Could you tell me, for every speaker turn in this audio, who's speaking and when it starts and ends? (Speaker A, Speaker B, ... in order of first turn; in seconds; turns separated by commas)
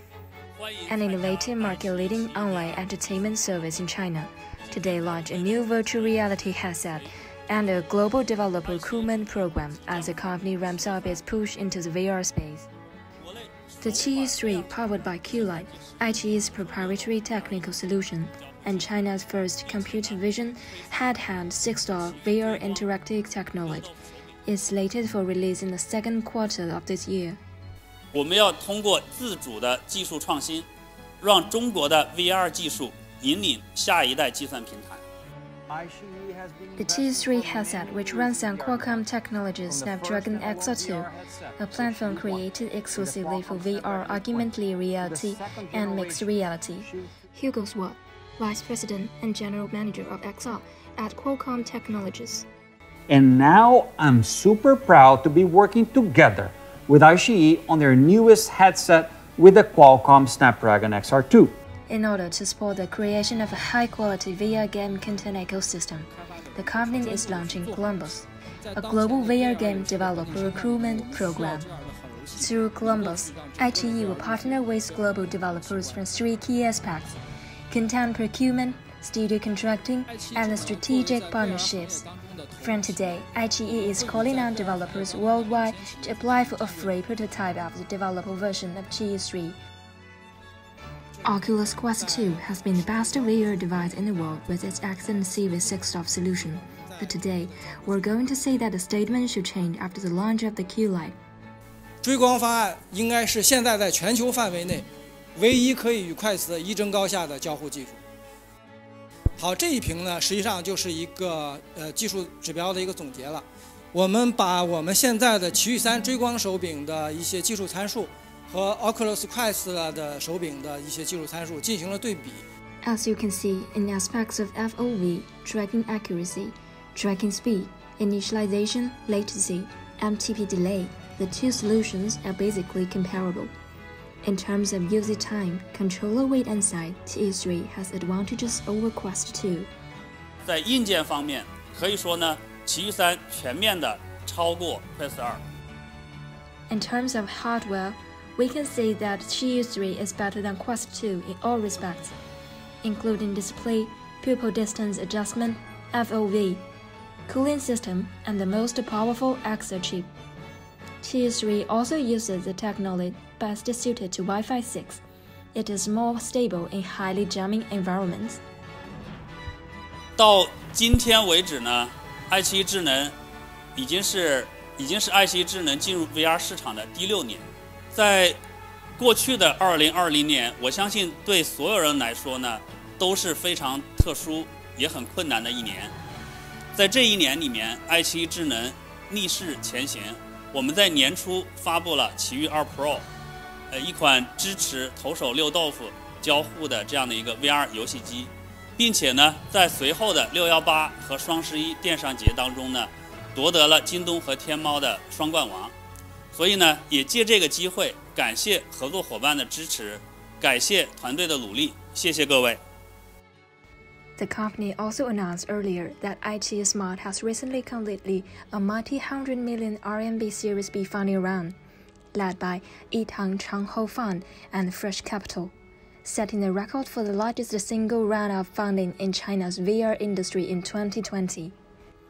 Speaker A: 0.6-3.1, Speaker B: 0.9-12.7, Speaker A: 4.7-7.0, Speaker A: 8.6-11.2, Speaker A: 13.2-22.9, Speaker B: 13.8-23.9, Speaker A: 23.6-24.0, Speaker B: 24.4-27.4, Speaker A: 28.1-30.7, Speaker A: 31.2-35.0, Speaker C: 35.7-39.1, Speaker B: 36.8-52.5, Speaker C: 39.6-46.4, Speaker C: 53.1-61.5, Speaker B: 61.9-71.7, Speaker D: 66.1-76.1, Speaker B: 72.3-77.2, Speaker B: 77.7-82.1, Speaker D: 80.1-83.1, Speaker B: 82.6-89.6, Speaker D: 83.7-87.0, Speaker D: 91.2-94.4, Speaker B: 91.2-101.1, Speaker D: 95.4-98.2, Speaker D: 102.0-108.0, Speaker D: 109.4-122.4, Speaker B: 122.8-133.5, Speaker B: 134.2-139.7, Speaker A: 140.4-145.4, Speaker B: 146.7-152.2, Speaker B: 152.8-156.6, Speaker B: 157.3-160.1, Speaker B: 161.0-165.0, Speaker B: 165.5-168.4, Speaker A: 170.2-173.1, Speaker A: 173.8-178.4, Speaker A: 179.0-185.9, Speaker A: 186.7-193.0, Speaker A: 193.7-205.7, Speaker A: 206.3-212.6, Speaker B: 214.2-221.5, Speaker B: 222.1-225.5, Speaker B: 226.0-231.5